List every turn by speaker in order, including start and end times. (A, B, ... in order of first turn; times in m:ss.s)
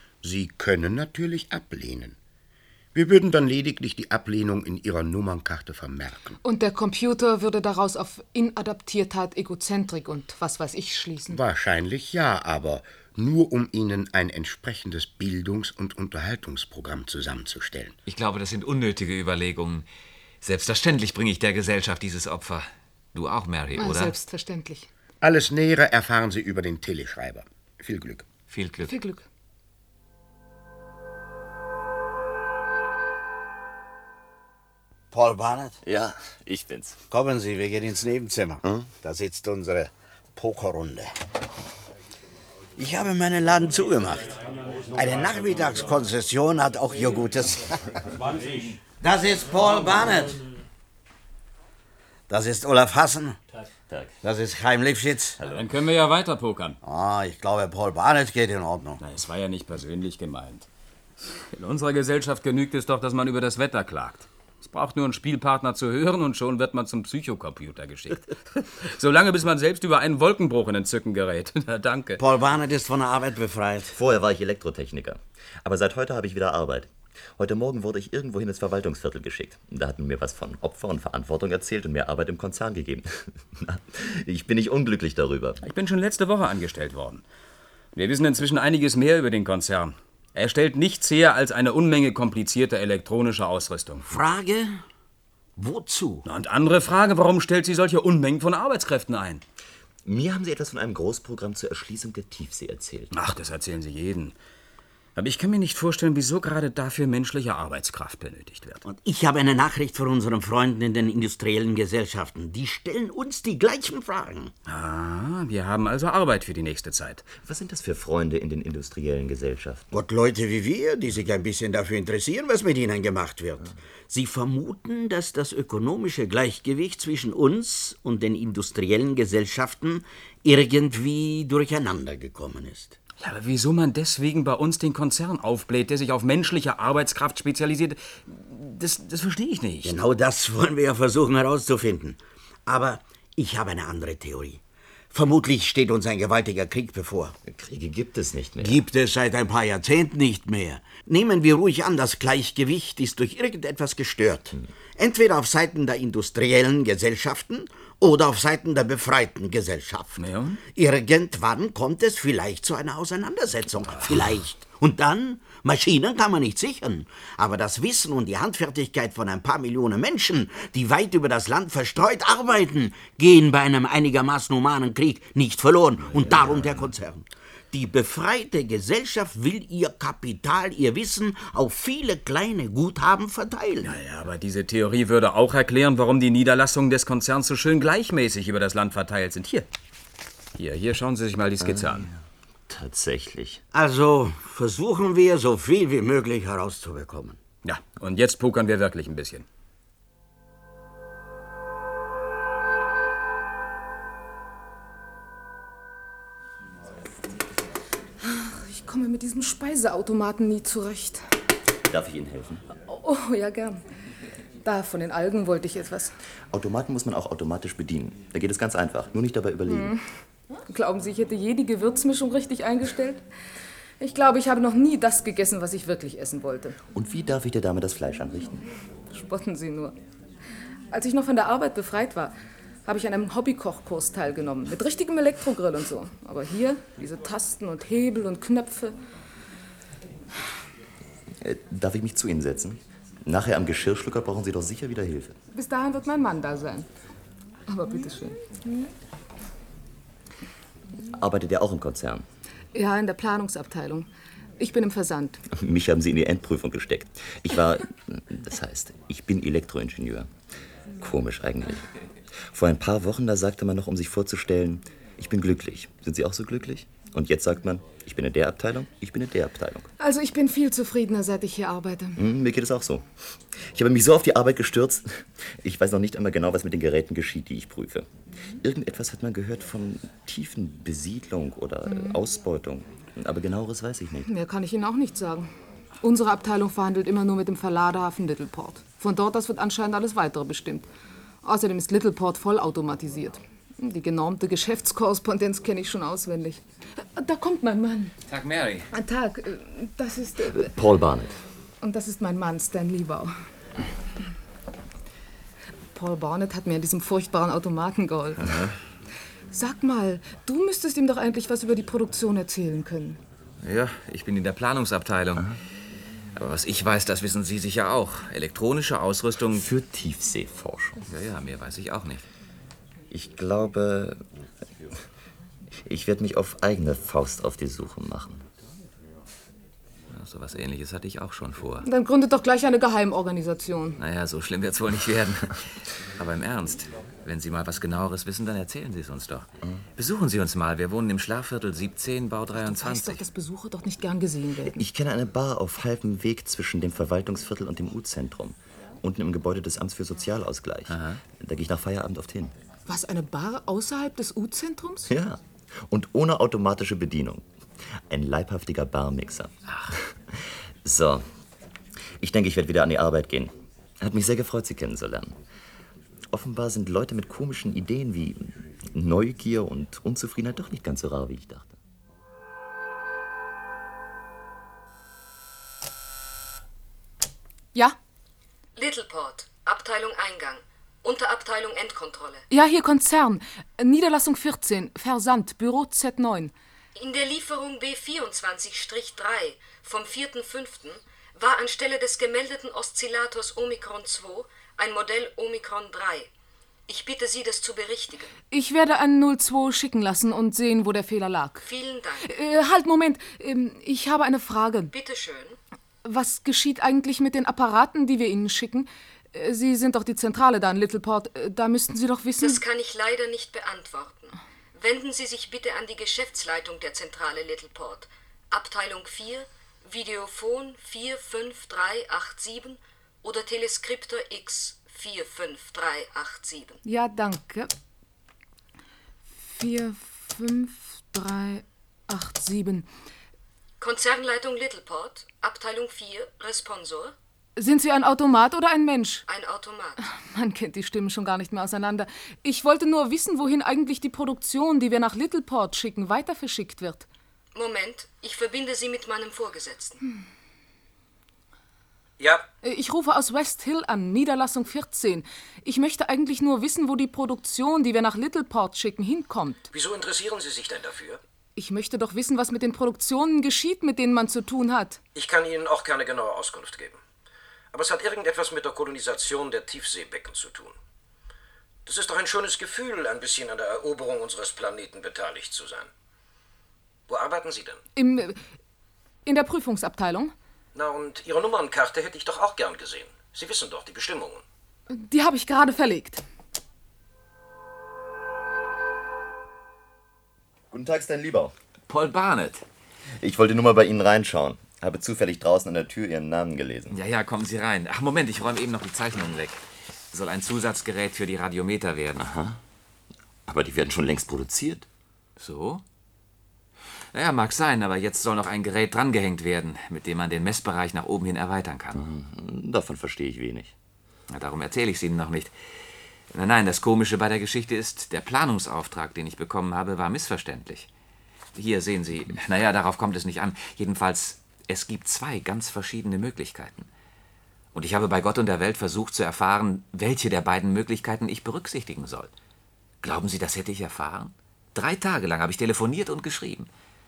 0:00.2-0:02.2 A
0:02.9-0:06.4 A
0:06.4-0:11.4 B
0:11.3-0:18.0 A
0:18.1-0:19.9 C
0:20.4-0:24.2 C
0:23.8-0:24.9 B
0:25.2-0:28.3 A
0:28.5-0:28.9 C
0:28.8-0:29.2 B
0:35.1-0:35.8 D
0:35.8-0:37.0 E
0:37.1-0:41.1 D
0:42.8-0:44.3 D
0:44.9-0:47.9 D
0:49.0-0:50.4 D
0:52.3-0:53.4 D
0:53.9-0:54.1 E
0:54.2-0:55.4 D
0:55.4-0:56.8 F
0:56.8-0:59.0 D
0:59.0-1:00.7 F
1:01.3-1:12.2 F
1:12.2-1:14.0 D
1:14.0-1:25.6 E
1:25.6-1:27.2 F
1:28.0-1:34.1 F
1:34.1-1:34.8 D
1:35.6-1:36.3 D
1:36.2-1:39.4 F
1:40.0-1:43.3 E
1:43.1-1:44.4 F
1:45.2-1:48.8 F
1:48.8-1:54.5 D
1:54.7-1:57.3 F
1:57.3-1:59.9 E
1:59.9-2:13.0 D
2:13.2-2:20.0 F
2:19.8-2:24.6 D
2:25.1-2:27.4 D
2:27.5-2:28.8 E
2:28.6-2:40.2 D
2:40.2-2:40.6 F
2:40.8-3:03.9 D
3:03.8-3:09.7 F
3:10.6-3:12.1 F
3:11.6-3:12.2 E
3:12.7-3:13.6 E
3:13.7-3:17.4 D
3:17.6-3:19.4 F
3:28.2-3:31.2 B
3:31.9-3:32.6 E
3:32.9-3:33.8 B
3:34.6-3:36.1 B
3:36.5-3:40.0 E
3:39.7-3:40.0 B
3:40.6-3:43.2 B
3:44.0-3:46.8 B
3:46.9-3:48.7 E
3:49.1-3:50.0 B
3:50.9-3:52.3 B
3:52.9-3:59.0 B
4:01.4-4:05.4 E
4:05.5-4:06.9 B
4:07.7-4:08.9 B
4:11.1-4:12.3 E
4:12.8-4:14.1 B
4:14.6-4:15.4 B
4:15.5-4:20.3 E
4:21.0-4:29.9 E
4:30.0-4:32.2 B
4:32.2-4:44.3 E
4:44.3-4:45.5 B
4:46.0-4:50.9 B
4:51.4-4:56.6 B
4:57.2-4:58.2 B
4:58.3-4:58.9 C
4:58.9-5:00.7 B
5:00.4-5:01.4 E
5:01.8-5:03.3 B
5:06.0-5:08.5 B
5:09.5-5:13.2 B
5:13.6-5:15.6 C
5:16.4-5:19.7 C
5:19.5-5:21.0 E
5:21.0-5:22.3 C
5:23.1-5:24.2 E
5:25.9-5:28.4 E
5:30.1-5:31.9 C
5:31.8-5:34.0 B
5:34.0-5:43.2 C
5:42.5-5:44.8 B
5:44.7-5:52.5 E
5:50.9-5:51.2 C
5:52.9-5:55.1 B
5:55.1-5:57.4 E
5:58.0-6:01.2 E
6:02.2-6:05.4 E
6:06.3-6:11.7 E
6:18.8-6:22.4 G
6:22.5-6:26.5 B
6:27.0-6:36.3 G
6:36.9-6:38.3 G
6:38.5-6:41.7 B
6:41.6-6:42.3 G
6:42.2-6:44.9 B
6:44.9-6:45.6 G
6:46.0-6:52.6 B
6:52.4-7:06.8 G
7:06.8-7:07.7 B
7:09.4-7:12.9 B
7:13.8-7:17.2 G
7:17.6-7:19.2 B
7:19.3-7:20.0 G
7:20.0-7:27.1 B
7:27.6-7:30.0 G
7:32.2-7:32.4 H
7:32.6-7:39.7 B
7:39.7-7:41.2 H
7:41.6-7:45.0 B
7:45.2-7:47.0 H
7:47.7-7:50.8 H
7:51.9-7:55.9 H
7:57.1-7:57.8 H
7:58.0-7:58.4 B
7:59.2-8:00.3 B
8:00.7-8:04.4 H
8:04.9-8:06.2 B
8:10.7-8:11.5 E
8:11.9-8:12.6 C
8:13.2-8:17.0 E
8:16.9-8:22.3 C
8:22.2-8:22.6 E
8:23.5-8:24.9 E
8:25.4-8:25.8 C
8:27.1-8:32.0 C
8:31.9-8:33.7 E
8:34.3-8:35.8 C
8:36.3-8:40.9 C
8:41.6-8:46.9 C
8:47.7-8:52.3 C
8:53.0-8:56.7 C